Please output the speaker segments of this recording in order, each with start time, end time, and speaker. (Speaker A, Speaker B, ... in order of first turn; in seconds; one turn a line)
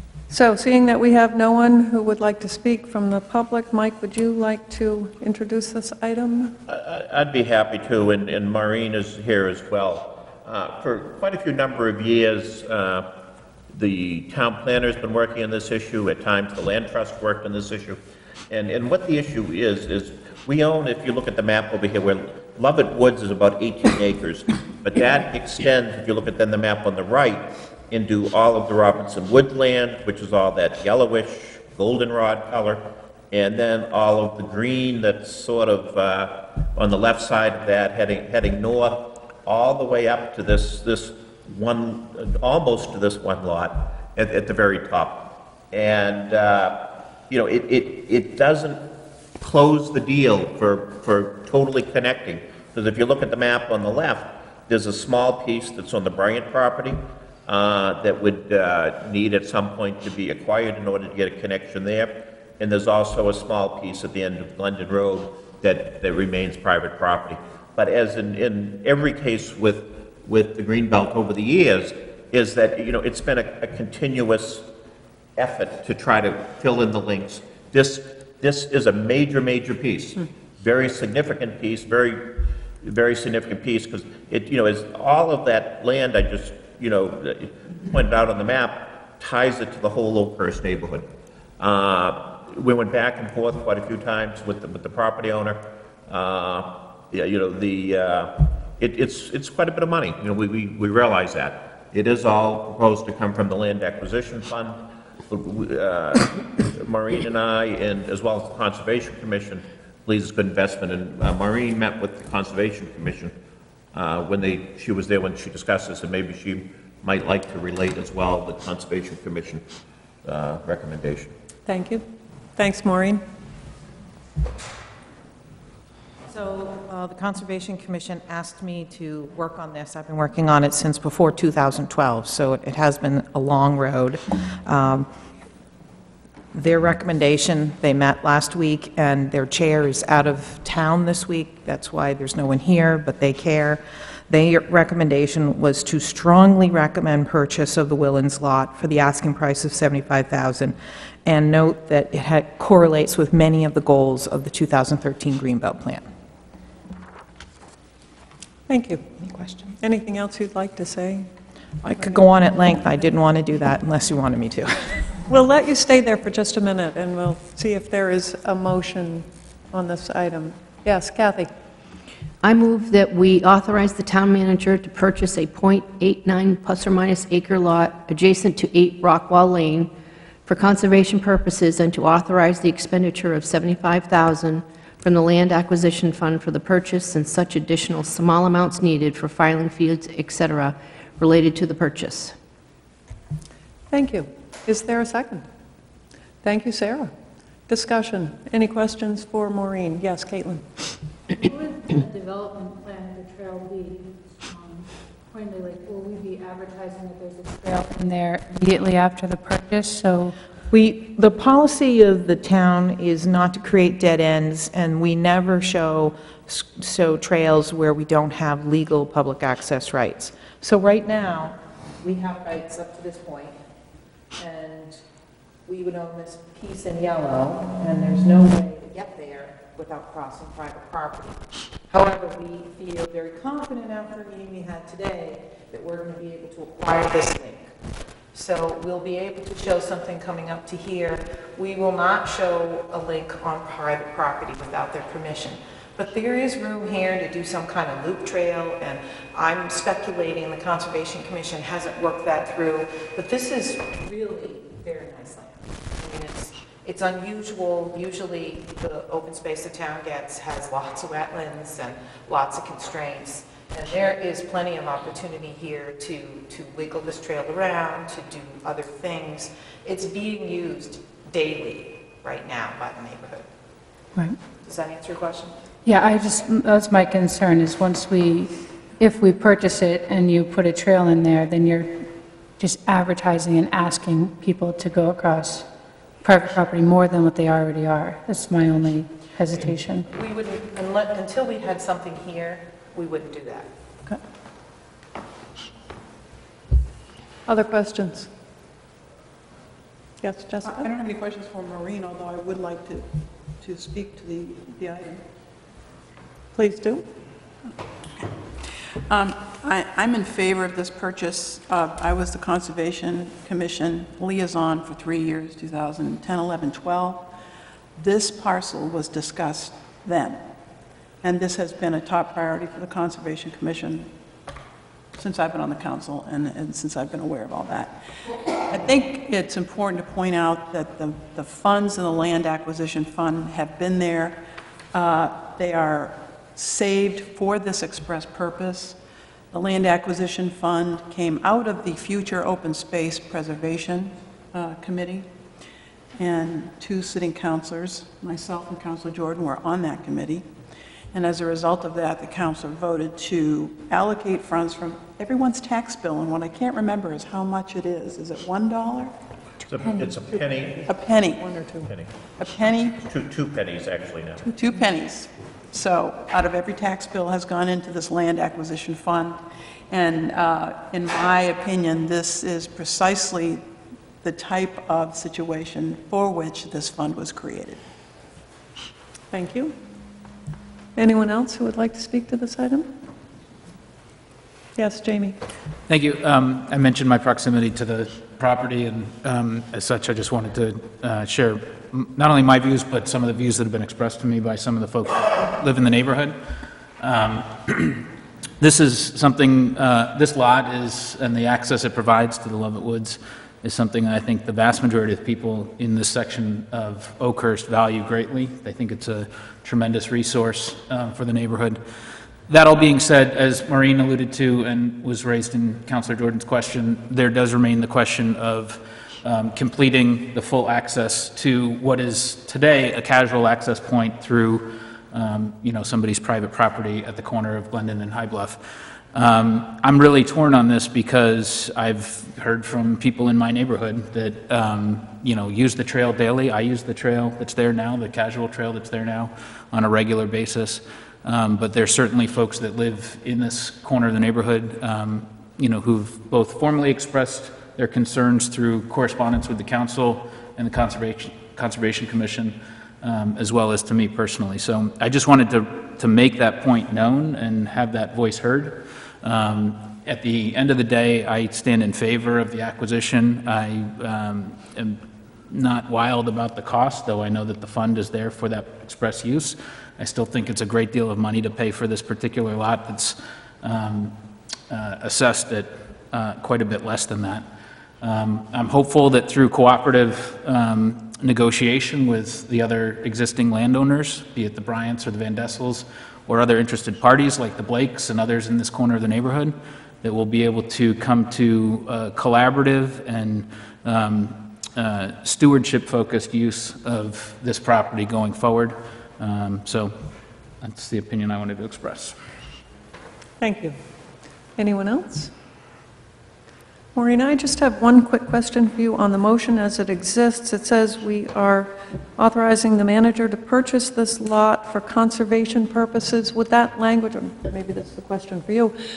Speaker A: 0.3-6.6
Speaker B: 6.7-13.1
Speaker B: 13.7-18.0
Speaker B: 18.5-48.9
Speaker B: 49.4-74.7
Speaker B: 75.4-91.1
Speaker B: 91.6-113.3
Speaker B: 113.9-119.6
Speaker B: 120.2-121.3
Speaker A: 121.7-122.0
Speaker A: 122.6-123.2
Speaker C: 126.3-135.1
Speaker C: 136.5-156.1
Speaker A: 158.7-159.1
Speaker C: 159.2-159.7
Speaker A: 159.8-161.3
Speaker C: 161.8-165.0
Speaker A: 165.3-171.5
Speaker D: 172.4-179.9
Speaker D: 180.5-192.4
Speaker A: 193.9-195.4
Speaker A: 196.4-197.1
Speaker A: 197.7-200.7
Speaker E: 201.4-210.4
Speaker C: 210.7-223.5
Speaker C: 224.3-225.0
Speaker C: 225.7-237.7
Speaker C: 238.3-273.5
Speaker C: 274.6-275.6
Speaker E: 275.9-285.7
Speaker E: 286.2-290.1
Speaker C: 290.1-293.7
Speaker A: 297.5-298.3
Speaker A: 300.2-300.9
Speaker F: 300.6-303.1
Speaker F: 303.6-305.2
Speaker A: 306.6-307.1
Speaker F: 308.9-317.3
Speaker F: 318.0-320.5
Speaker F: 321.2-324.1
Speaker F: 325.2-328.0
Speaker F: 328.6-334.4
Speaker F: 334.9-339.0
Speaker F: 339.5-345.3
Speaker F: 346.2-350.5
Speaker F: 351.1-359.1
Speaker B: 359.7-360.9
Speaker F: 360.9-361.7
Speaker A: 361.4-361.9
Speaker B: 361.9-362.1
Speaker F: 362.4-363.0
Speaker B: 363.0-364.5
Speaker F: 364.4-373.6
Speaker F: 374.2-377.8
Speaker A: 379.3-379.8
Speaker A: 381.0-382.9
Speaker A: 384.8-385.4
Speaker G: 385.9-398.1
Speaker G: 398.6-411.8
Speaker G: 412.5-474.2
Speaker G: 474.7-477.5
Speaker G: 478.0-500.0
Speaker G: 500.6-502.2
Speaker A: 503.4-503.8
Speaker A: 504.6-505.3
Speaker A: 506.9-518.8